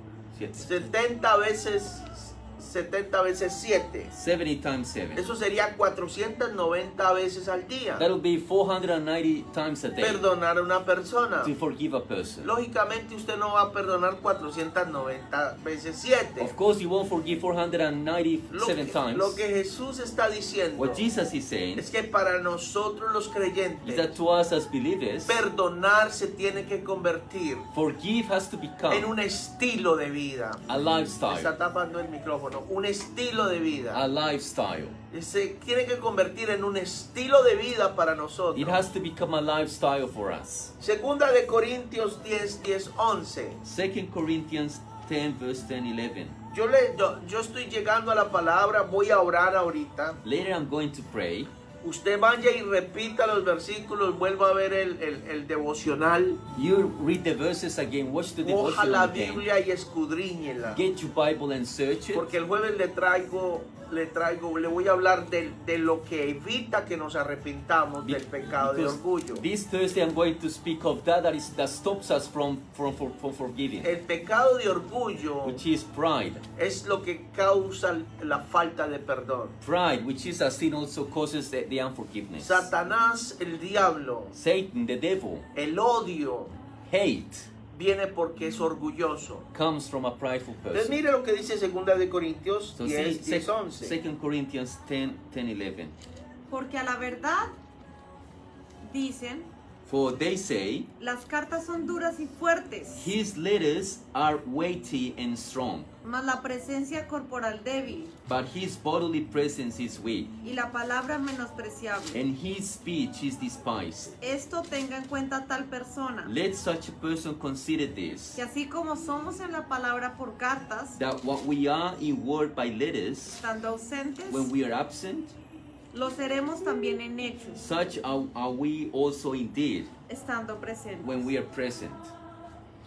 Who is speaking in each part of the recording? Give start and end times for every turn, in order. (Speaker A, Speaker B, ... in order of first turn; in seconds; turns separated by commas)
Speaker A: 0.3-0.9, Speaker B: 0.6-4.1, Speaker A: 4.1-5.2, Speaker B: 5.1-8.1, Speaker A: 8.0-10.2, Speaker B: 10.0-11.5, Speaker A: 11.4-12.5, Speaker B: 12.4-16.5, Speaker A: 16.4-19.4, Speaker B: 18.5-21.1, Speaker A: 20.8-21.9, Speaker B: 21.8-24.1, Speaker A: 23.8-25.4, Speaker B: 25.2-27.7, Speaker A: 27.7-29.1, Speaker B: 28.9-30.6, Speaker A: 30.7-31.5, Speaker B: 31.2-34.0, Speaker A: 33.9-35.0, Speaker B: 35.1-38.8, Speaker A: 38.5-40.7, Speaker B: 40.8-43.6, Speaker A: 43.6-46.4, Speaker B: 46.5-50.2, Speaker A: 50.2-51.5, Speaker B: 51.8-56.4, Speaker A: 56.5-59.4, Speaker B: 58.4-60.8, Speaker A: 60.7-62.3, Speaker B: 62.1-69.4, Speaker A: 68.0-73.9, Speaker B: 73.8-75.6, Speaker A: 75.4-76.4, Speaker B: 76.5-79.6, Speaker A: 79.6-82.7, Speaker B: 82.4-84.3, Speaker A: 84.3-85.5, Speaker B: 85.5-86.6, Speaker A: 86.8-87.5, Speaker B: 87.7-89.5, Speaker A: 89.5-91.0, Speaker B: 90.7-94.0, Speaker A: 92.7-96.0, Speaker C: 96.5-97.5, Speaker C: 98.8-99.5, Speaker A: 99.9-100.9, Speaker C: 101.0-103.1, Speaker A: 103.0-105.9, Speaker C: 106.0-108.1, Speaker A: 108.3-110.3, Speaker C: 110.4-112.2, Speaker A: 112.1-114.2, Speaker C: 114.2-116.3, Speaker A: 116.2-118.4, Speaker C: 118.3-121.0, Speaker A: 121.0-123.4, Speaker C: 123.3-124.5, Speaker A: 124.3-125.3, Speaker C: 125.9-127.6, Speaker A: 127.5-129.9, Speaker C: 130.1-131.2, Speaker A: 131.0-132.1